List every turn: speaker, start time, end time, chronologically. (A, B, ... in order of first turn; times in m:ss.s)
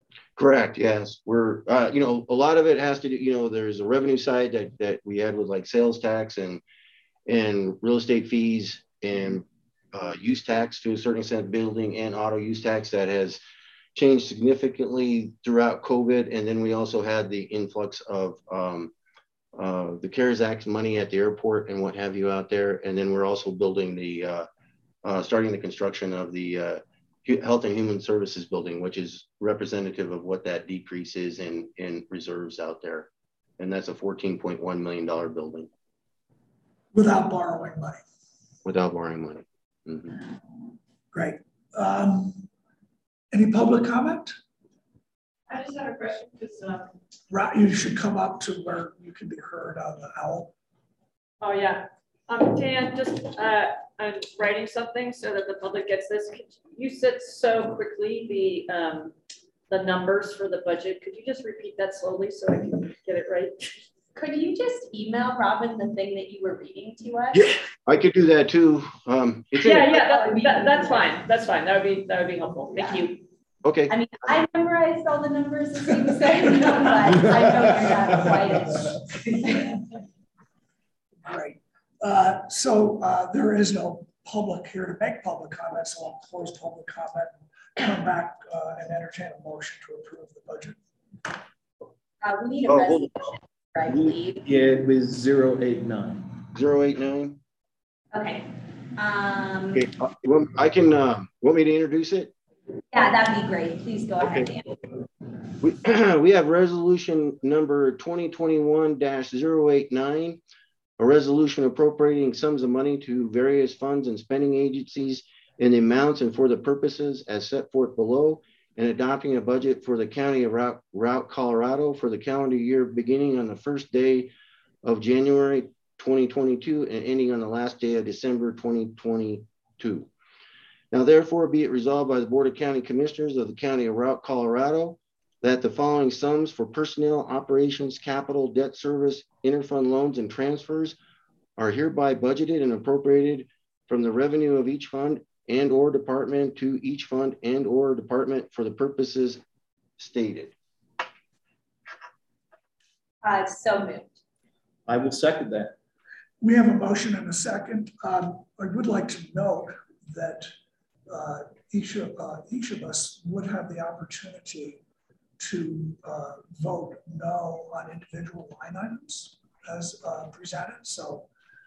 0:00.4-0:06.6 A
0:07.3-0:13.4 A
0:14.0-0:18.9 A
0:19.6-0:24.5 A
0:25.0-0:33.1 A
0:33.6-0:35.7 A
0:36.9-0:38.0 B
0:38.6-0:40.2 A
0:41.1-0:42.5 B
0:43.3-0:44.3 B
0:45.5-0:46.9 C
0:47.3-0:50.5 B
0:51.4-0:59.1 C
0:59.7-1:03.8 C
1:04.1-1:07.5 D
1:07.3-1:10.3 A
1:09.6-1:13.2 C
1:10.0-1:11.0 D
1:12.7-1:13.1 D
1:13.6-1:13.9 A
1:13.9-1:19.0 D
1:21.2-1:30.8 B
1:32.2-1:34.4 D
1:32.7-1:33.1 A
1:33.9-1:36.3 E
1:36.5-1:37.4 A
1:38.1-1:39.9 D
1:39.7-1:42.3 A
1:42.9-1:44.8 D
1:44.2-1:44.5 A
1:45.6-1:50.4 A
1:51.0-2:04.3 A
2:04.8-2:10.1 A
2:10.9-2:21.0 A
2:21.6-2:29.4 A
2:30.0-2:30.5 A
2:33.2-2:34.2 D
2:34.9-2:35.7 E
2:36.4-2:40.5 B
2:41.1-2:44.8 B
2:45.4-2:51.3 B